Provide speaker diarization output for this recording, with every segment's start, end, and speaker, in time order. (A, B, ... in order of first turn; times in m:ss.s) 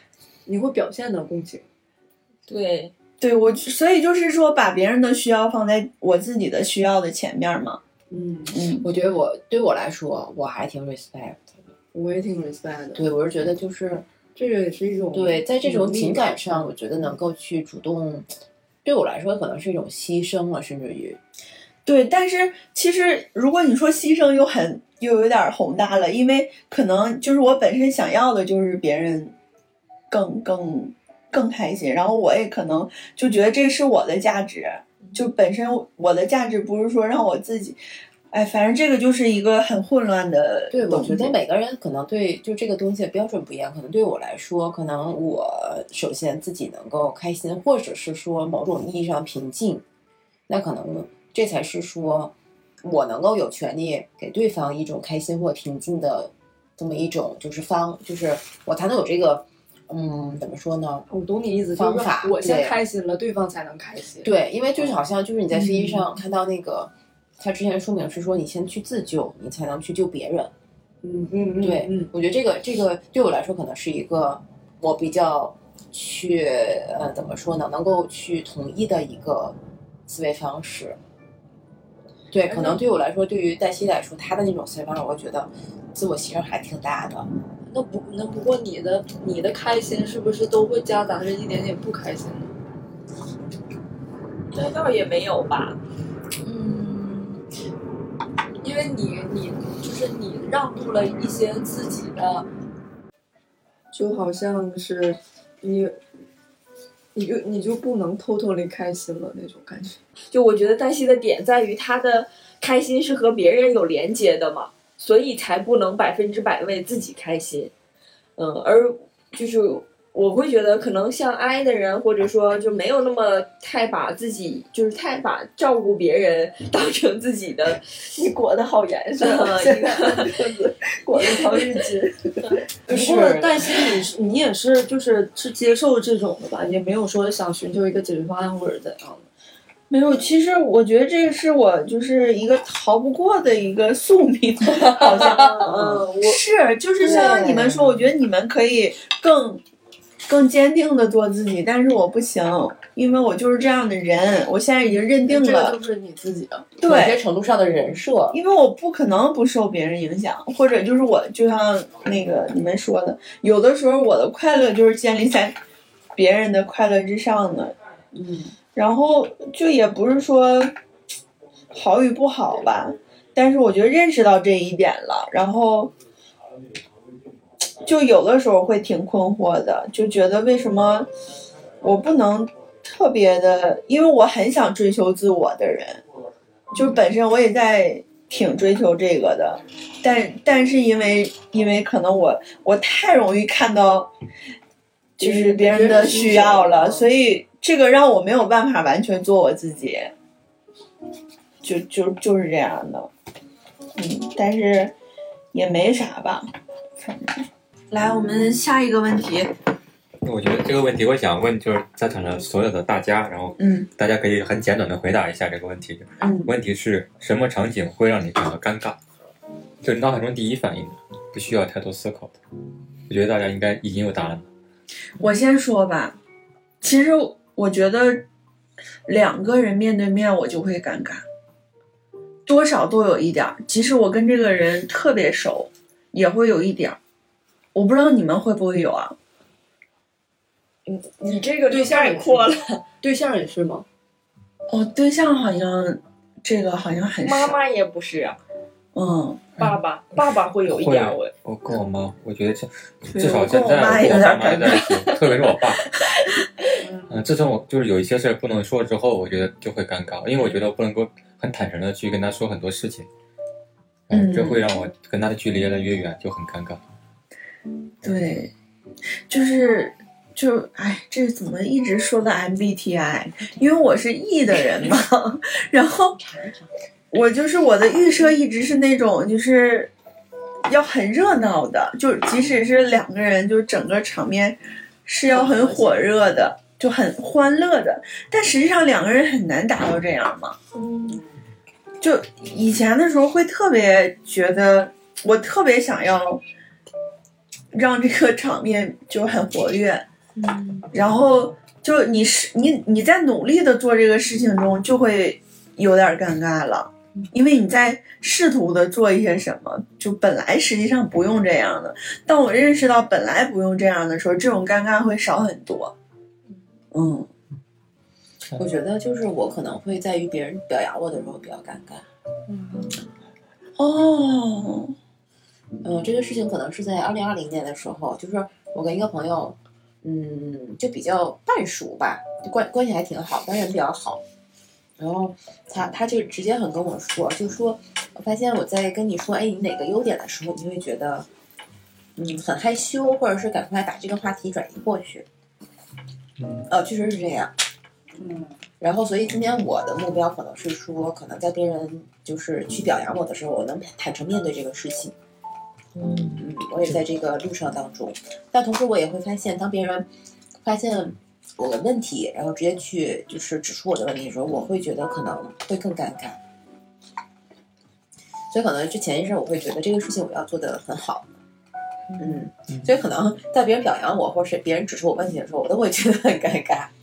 0:00.5-0:01.7 A
0:02.5-0:02.9 B
0:03.2-0:07.8 C
0:08.1-0:08.6 A
0:08.5-0:08.9 C
0:08.8-0:11.6 D
0:11.9-0:13.0 A
0:12.9-0:14.1 D
0:14.4-0:16.7 A
0:15.1-0:18.3 D
0:18.8-0:21.2 D
0:21.8-0:29.3 C
0:30.1-0:37.8 C
0:38.3-0:41.4 C
0:40.7-0:49.8 D
0:50.5-1:01.1 D
1:01.1-1:05.0 A
1:01.7-1:02.8 D
1:04.2-1:10.5 D
1:05.5-1:06.1 A
1:11.0-1:12.1 A
1:11.6-1:21.0 D
1:22.3-1:27.3 D
1:22.4-1:22.8 A
1:27.7-1:32.5 A
1:34.5-1:35.8 B
1:36.5-1:37.4 C
1:38.6-1:42.5 A
1:43.9-1:46.0 A
1:47.2-1:50.0 A
1:50.3-1:57.7 B
1:58.4-2:07.8 B
2:08.2-2:19.3 A
2:09.2-2:10.4 B
2:11.1-2:11.8 B
2:12.9-2:14.0 C
2:19.9-2:29.6 C
2:24.8-2:26.4 A
2:25.0-2:26.1 B
2:27.0-2:28.1 D
2:27.1-2:27.4 A
2:30.3-2:35.8 C
2:35.2-2:36.7 A
2:36.8-2:38.4 D
2:36.8-2:37.2 C
2:38.3-2:45.6 C
2:46.2-2:47.8 C
2:48.2-2:48.5 A
2:48.7-2:50.7 C
2:51.7-2:55.9 C
2:57.8-3:01.1 C
3:01.8-3:06.0 C
3:06.7-3:14.1 C
3:15.2-3:20.1 C
3:15.2-3:17.1 A
3:21.6-3:23.1 C
3:24.0-3:24.9 C
3:25.5-3:26.5 C
3:27.0-3:29.5 C
3:30.2-3:39.0 E
3:33.6-3:33.9 C
3:36.2-3:36.5 C
3:39.8-3:42.4 E
3:43.1-3:44.5 E
3:45.2-3:46.2 C
3:46.8-3:48.2 C
3:49.1-3:51.2 C
3:52.5-3:57.0 C
3:57.7-3:59.2 C
4:00.9-4:02.8 B
4:01.7-4:02.5 A
4:03.0-4:03.8 A
4:04.7-4:07.6 C
4:07.2-4:08.4 B
4:09.0-4:09.5 C
4:09.6-4:11.3 B
4:10.7-4:15.8 E
4:13.1-4:15.1 C
4:16.8-4:17.2 A
4:17.1-4:23.1 E
4:24.1-4:26.8 E
4:24.1-4:24.7 C
4:28.0-4:28.5 C
4:29.3-4:36.2 C
4:36.1-4:36.7 D
4:37.1-4:39.9 C
4:40.7-4:50.6 C
4:45.3-4:45.9 D
4:50.8-4:51.2 B
4:52.0-4:56.4 C
4:57.7-5:00.0 C
5:00.9-5:15.9 C
5:16.9-5:17.3 C
5:18.6-5:22.0 D
5:22.5-5:23.0 A
5:23.8-5:24.9 C
5:25.8-5:34.2 D
5:35.0-5:41.3 D
5:42.2-5:45.3 D
5:46.4-5:46.7 E
5:46.7-5:47.5 D
5:48.2-5:48.6 A
5:48.8-5:55.1 D
5:56.2-6:00.1 D
6:00.6-6:06.4 D
6:08.5-6:11.3 D
6:12.2-6:16.9 D